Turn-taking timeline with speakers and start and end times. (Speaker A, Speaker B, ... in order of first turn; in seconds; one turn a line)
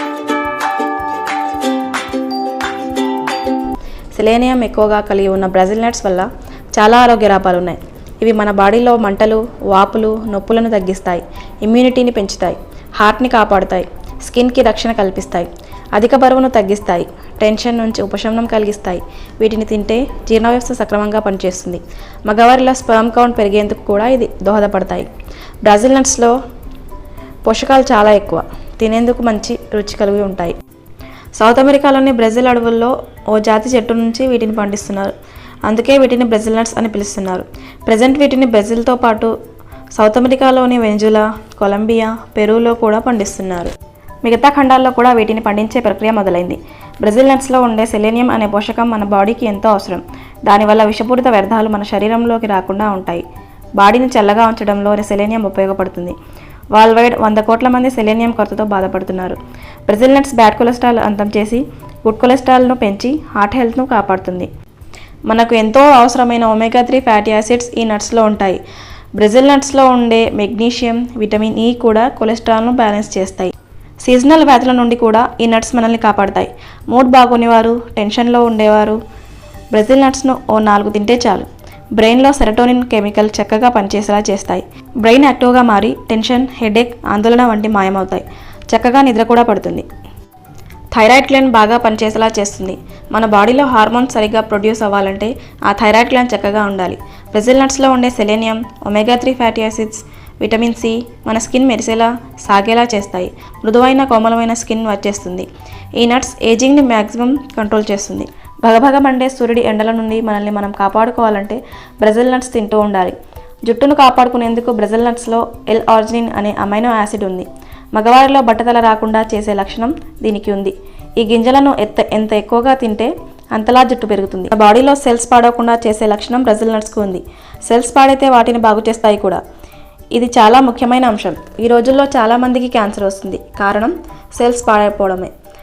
Speaker A: 4.1-25.1
Speaker A: 25.6-26.4
Speaker A: 27.5-30.6
Speaker A: 31.4-35.1
Speaker A: 35.7-39.3
Speaker A: 40.0-43.7
Speaker A: 44.2-53.2
Speaker A: 53.8-56.2
Speaker A: 56.8-64.5
Speaker A: 65.3-68.6
Speaker A: 69.2-73.5
Speaker A: 74.0-79.0
Speaker A: 79.7-89.9
Speaker A: 90.9-129.4
Speaker A: 130.1-135.3